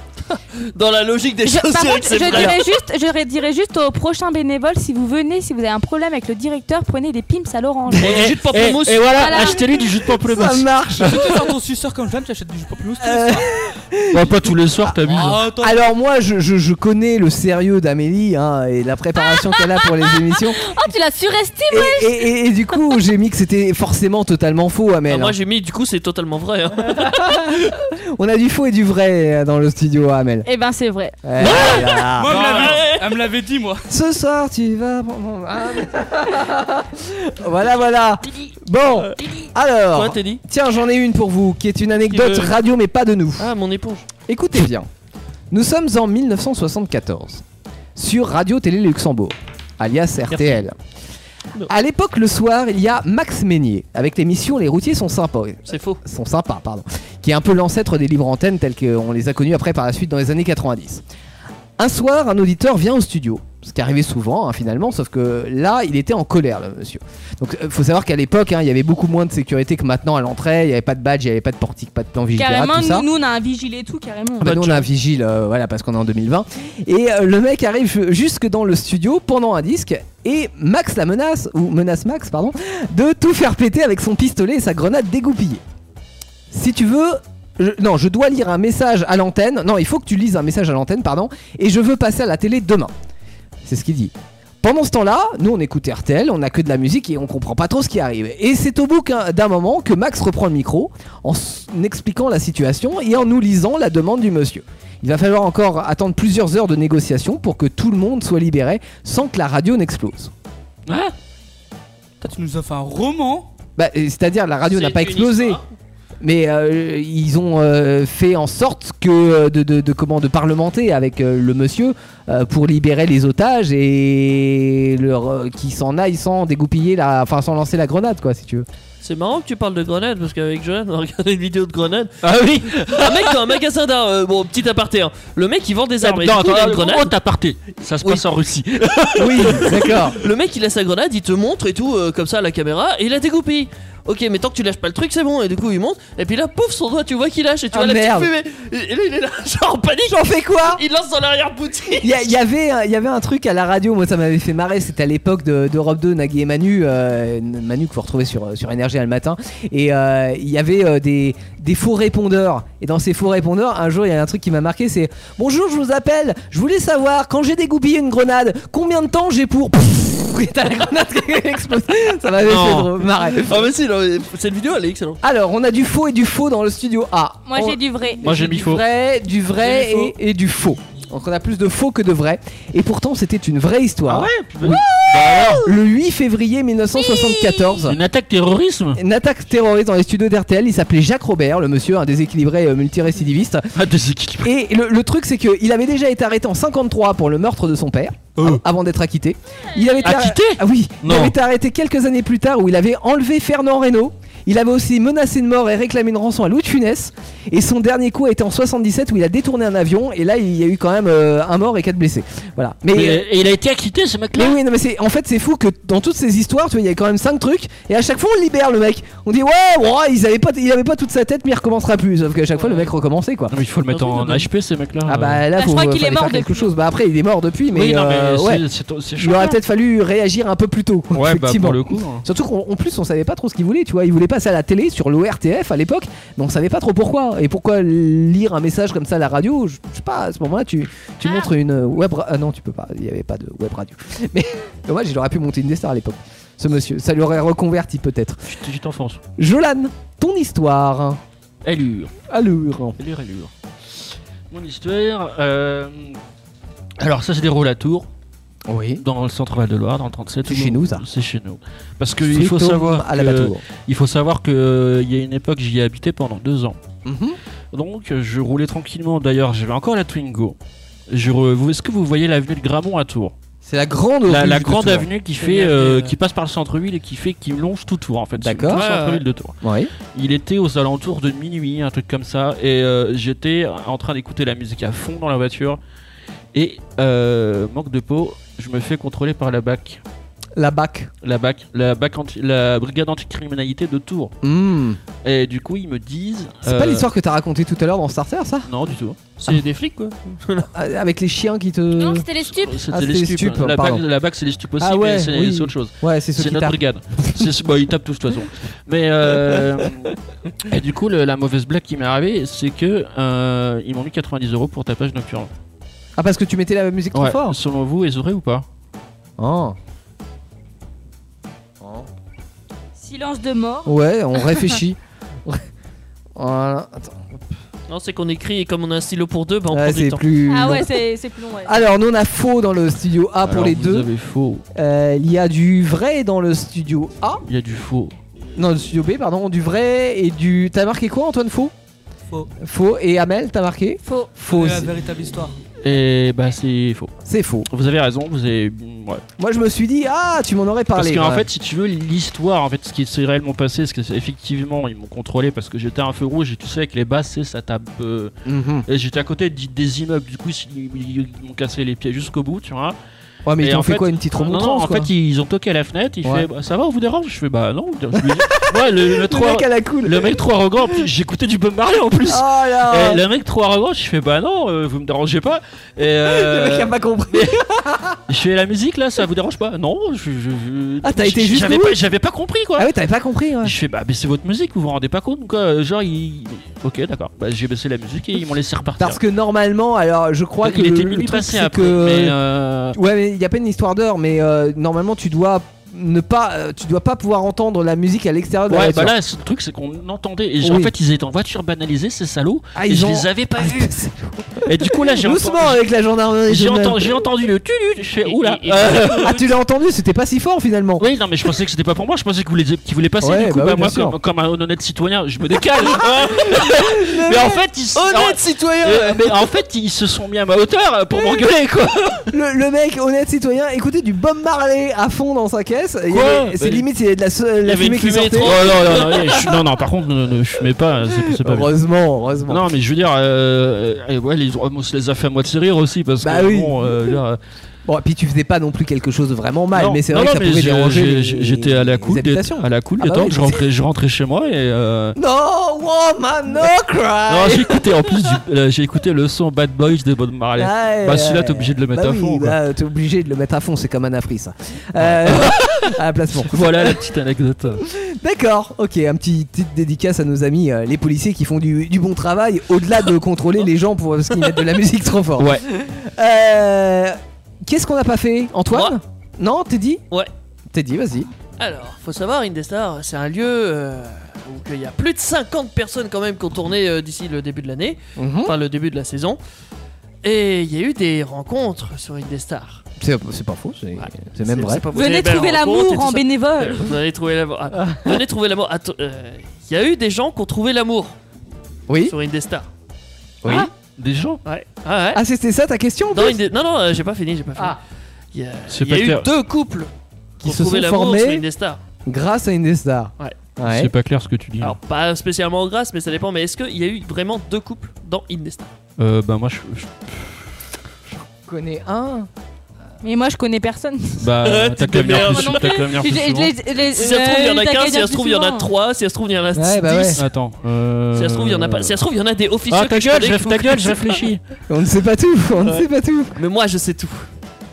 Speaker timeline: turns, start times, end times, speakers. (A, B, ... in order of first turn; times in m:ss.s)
0:00.7-0:02.8 A
0:01.4-0:08.1 B
0:08.0-0:09.6 A
0:08.0-0:11.2 C
0:09.2-0:09.8 B
0:10.2-0:11.3 D
0:11.0-0:13.5 E
0:13.0-0:20.6 D
0:14.1-0:15.4 C
0:15.1-0:15.8 E
0:20.6-0:22.2 F
0:21.7-0:25.4 D
0:25.1-0:27.6 A
0:26.8-0:30.5 D
0:30.4-0:31.2 B
0:31.2-0:32.6 D
0:31.4-0:33.1 A
0:32.0-0:33.9 E
0:32.3-0:32.7 C
0:33.9-0:43.5 D
0:39.9-0:40.4 A
0:42.1-0:42.5 A
0:43.4-0:44.1 A
0:44.3-0:44.9 D
0:45.5-0:47.4 D
0:48.0-0:50.7 D
0:51.7-1:01.0 D
0:55.7-0:56.0 A
1:01.8-1:13.1 D
1:12.4-1:14.6 B
1:14.4-1:25.6 D
1:26.5-1:32.9 D
1:33.6-1:50.3 D
1:50.9-1:51.1 C
1:52.2-1:53.5 E
1:53.8-1:55.6 D
1:54.7-1:55.6 A
1:56.2-2:08.7 D
2:09.0-2:12.2 A
2:12.2-2:13.3 C
2:12.7-2:17.1 A
2:16.0-2:19.9 C
2:18.8-2:32.3 A
2:19.2-2:20.2 D
2:27.7-2:28.3 D
2:30.1-2:30.8 D
2:32.0-2:53.7 D
2:52.5-2:52.8 C
2:53.2-2:55.2 A
2:55.2-3:08.0 D
2:57.5-2:58.5 B
2:58.2-2:58.8 C
3:04.1-3:05.7 C
3:07.2-3:07.7 B
3:07.8-3:09.0 C
3:09.0-3:13.6 D
3:13.8-3:14.5 C
3:14.4-3:33.3 D
3:18.4-3:18.6 C
3:20.0-3:21.3 C
3:32.9-3:34.6 C
3:34.4-3:43.5 D
3:43.5-3:45.5 C
3:43.9-3:44.5 A
3:45.1-3:48.6 D
3:45.5-3:46.7 B
3:47.7-3:49.6 C
3:49.2-4:08.4 D
3:51.1-3:52.2 C
4:08.5-4:09.2 C
4:09.4-4:11.2 D
4:11.6-4:12.1 C
4:12.3-4:13.0 D
4:13.0-4:13.5 C
4:14.5-4:16.2 C
4:17.0-4:18.1 C
4:18.7-4:19.0 D
4:19.0-4:26.8 C
4:20.5-4:21.0 D
4:22.2-4:23.6 D
4:27.0-4:27.4 D
4:27.7-4:30.6 C
4:31.1-4:33.3 C
4:33.6-4:35.1 D
4:34.3-4:39.5 C
4:35.4-4:36.2 A
4:38.4-4:38.9 D
4:38.7-4:39.2 A
4:39.6-4:39.9 D
4:40.0-4:45.8 C
4:46.5-4:50.0 C
4:50.6-4:51.1 D
4:51.2-4:54.3 C
4:54.4-4:55.0 D
4:55.2-4:57.0 C
4:56.6-4:58.7 D
4:58.7-4:59.2 C
4:59.4-5:00.7 A
5:00.7-5:02.3 D
5:01.9-5:02.8 F
5:02.6-5:10.1 C
5:02.9-5:04.0 D
5:04.8-5:07.5 D
5:10.7-5:15.5 C
5:16.2-5:17.6 D
5:17.1-5:18.6 C
5:19.4-5:19.8 D
5:21.8-5:22.1 D
5:23.0-5:23.9 B
5:23.8-5:25.6 D
5:26.4-5:27.3 D
5:27.9-5:30.2 A
5:29.7-5:31.0 D
5:30.5-5:31.8 B
5:31.7-5:34.1 D
5:33.4-5:34.6 C
5:34.8-5:37.4 D
5:37.5-5:38.2 C
5:38.6-5:41.7 D
5:42.6-5:44.9 D
5:44.0-5:44.3 B
5:44.4-5:45.6 E
5:45.8-5:47.1 C
5:47.2-5:47.7 D
5:47.7-5:49.2 C
5:49.4-5:51.5 D
5:51.0-5:58.3 C
5:58.5-5:58.8 D
5:58.9-6:03.0 C
6:03.5-6:05.1 D
6:03.6-6:17.6 C
6:08.2-6:10.4 D
6:12.3-6:13.2 D
6:16.2-6:18.2 D
6:18.3-6:22.9 C
6:21.0-6:22.0 D
6:22.8-6:23.8 D
6:23.6-6:29.2 C
6:29.0-6:32.4 D
6:30.6-6:33.0 C
6:32.9-6:39.2 D
6:38.7-6:44.0 C
6:40.6-6:40.9 D
6:42.8-6:47.3 D
6:44.6-6:45.8 C
6:46.5-6:49.4 C
6:48.2-6:49.5 A
6:48.6-6:51.0 D
6:51.0-7:02.3 C
6:53.2-6:54.2 D
6:56.0-6:57.6 D
6:58.0-6:59.2 A
7:02.3-7:08.9 D
7:06.1-7:06.8 C
7:07.6-7:09.6 A
7:08.4-7:11.7 C
7:11.2-7:12.6 D
7:12.5-7:17.4 C
7:16.2-7:17.2 D
7:17.9-7:23.6 D
7:19.8-7:25.2 C
7:25.2-7:28.0 D
7:27.3-7:32.6 C
7:30.6-7:37.0 D
7:35.0-7:35.9 C
7:36.5-7:37.8 C
7:37.8-7:50.0 D
7:48.7-7:49.0 A
7:50.7-7:51.3 D
7:51.6-7:59.4 A
7:58.2-7:58.5 D
8:00.2-8:02.8 A
8:03.0-8:04.8 D
8:04.0-8:11.2 A
8:04.9-8:06.9 B
8:07.7-8:08.2 D
8:11.9-8:12.1 D
8:12.0-8:12.7 A
8:13.4-8:13.7 D
8:14.0-8:14.4 C
8:14.4-8:15.2 A
8:15.1-8:16.4 D
8:16.1-8:17.8 A
8:18.3-8:19.9 A
8:18.7-8:19.3 C
8:20.4-8:21.4 D
8:20.4-8:21.8 A
8:22.1-8:23.9 D
8:23.6-8:24.8 C
8:24.6-8:28.7 A
8:29.0-8:30.4 C
8:31.1-8:32.3 D
8:33.0-8:34.3 B
8:34.2-8:36.5 C
8:34.4-8:35.9 A
8:35.2-8:38.7 B
8:36.9-8:40.2 A
8:39.6-8:40.2 D
8:40.2-8:42.0 C
8:41.1-8:44.3 A
8:42.7-8:44.4 C
8:44.7-8:46.4 D
8:45.6-8:47.3 A